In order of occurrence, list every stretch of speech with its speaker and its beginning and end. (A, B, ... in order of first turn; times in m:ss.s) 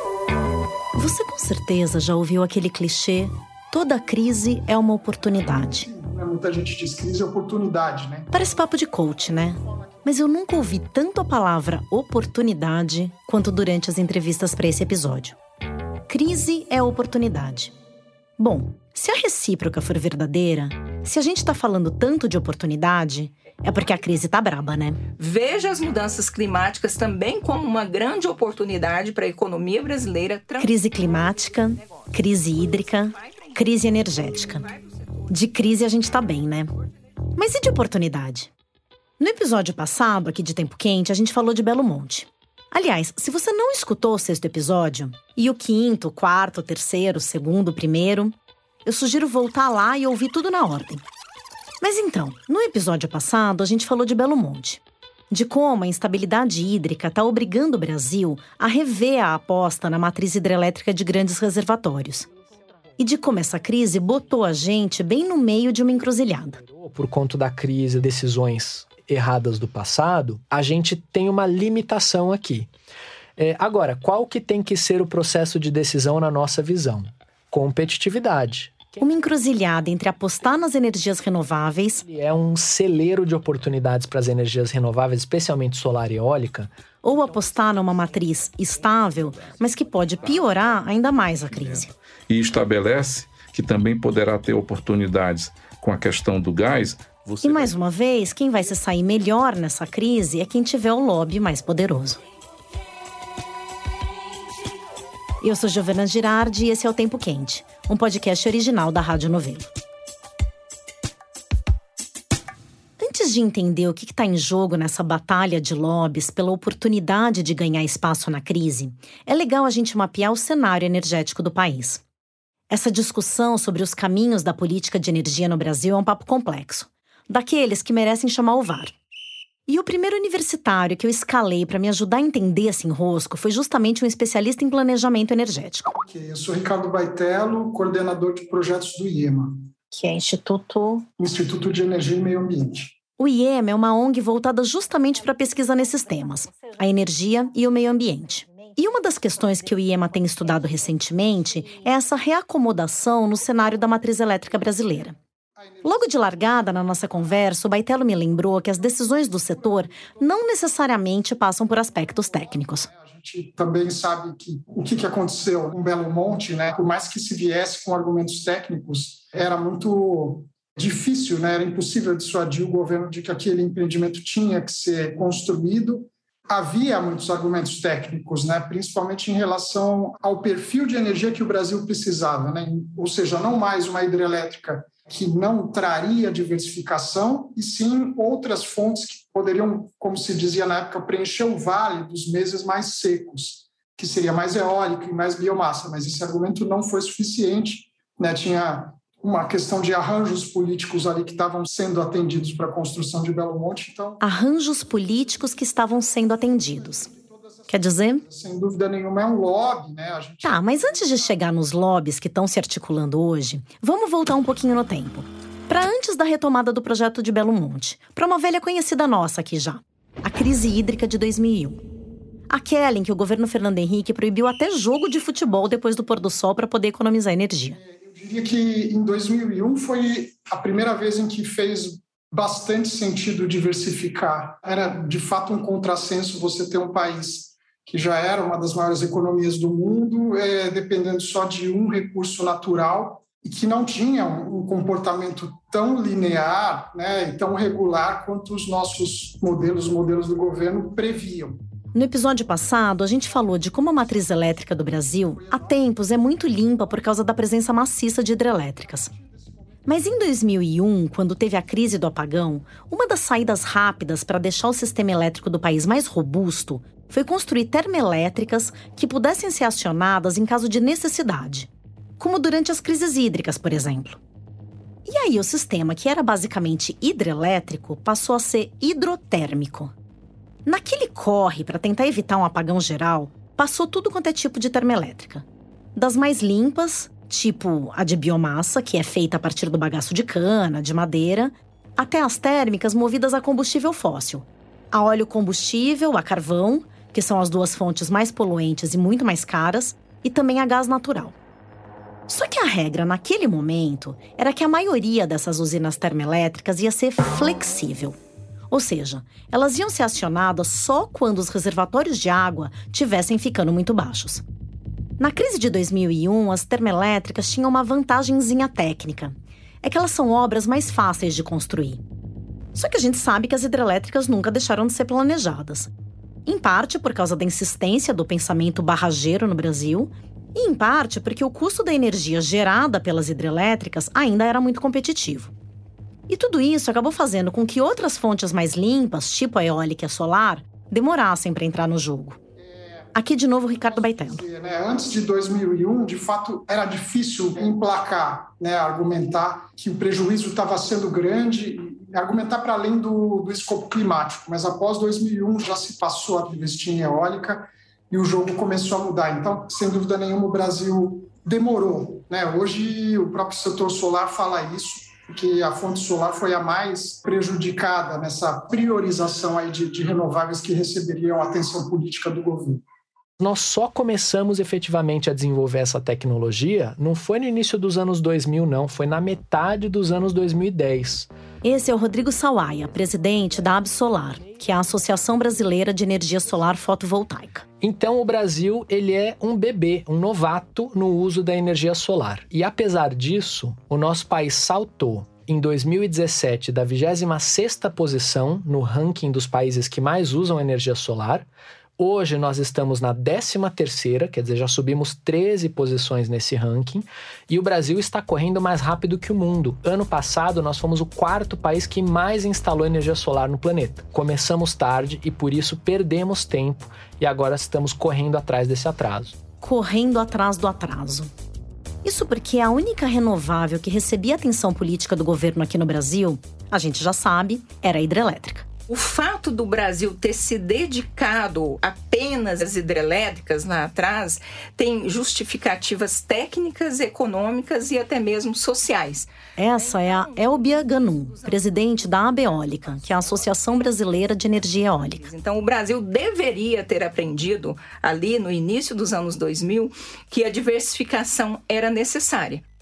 0:01.0-0:05.9 A
0:05.6-0:10.1 B
0:08.3-0:15.4 A
0:16.1-0:17.7 A
0:18.4-0:25.0 A
0:25.2-0:35.4 C
0:30.6-0:34.7 A
0:35.3-0:36.7 A
0:37.4-0:38.5 A
0:39.2-0:51.0 A
0:51.8-1:02.3 A
1:03.0-1:06.6 A
1:06.8-1:12.7 D
1:13.4-1:19.0 D
1:19.0-1:22.1 A
1:22.0-1:26.7 D
1:27.0-1:31.9 A
1:29.1-1:37.8 E
1:37.4-1:42.2 A
1:45.4-1:49.7 A
1:53.0-2:02.0 A
2:02.7-2:08.9 A
2:09.7-2:15.9 A
2:16.1-2:19.7 B
2:19.9-2:21.1 A
2:21.2-2:23.0 B
2:23.2-2:35.2 A
2:35.6-2:36.3 B
2:35.8-2:42.9 A
2:39.4-2:40.2 B
2:42.6-3:24.2 B
3:24.2-3:27.1 A
3:25.0-3:31.3 B
3:27.7-3:28.2 A
3:30.4-3:41.8 A
3:42.5-3:47.8 A
3:47.7-4:11.6 B
4:11.9-4:19.1 A
4:15.1-4:16.9 B
4:18.6-4:20.3 B
4:19.8-4:34.2 A
4:35.1-4:39.9 A
4:40.7-4:45.4 A
4:46.0-5:01.4 A
5:02.3-5:08.2 A
5:08.7-5:14.4 A
5:15.2-5:22.0 A
5:22.8-5:25.9 A
5:26.5-5:35.5 A
5:36.3-5:42.4 A
5:42.6-6:12.8 B
5:43.2-5:44.4 A
6:13.4-6:21.3 D
6:21.6-6:27.6 A
6:24.4-6:25.4 D
6:27.8-6:41.5 D
6:42.0-6:59.4 D
6:59.6-7:01.3 A
7:02.0-7:08.7 A
7:08.9-7:23.6 C
7:19.6-7:25.2 A
7:24.7-7:32.6 C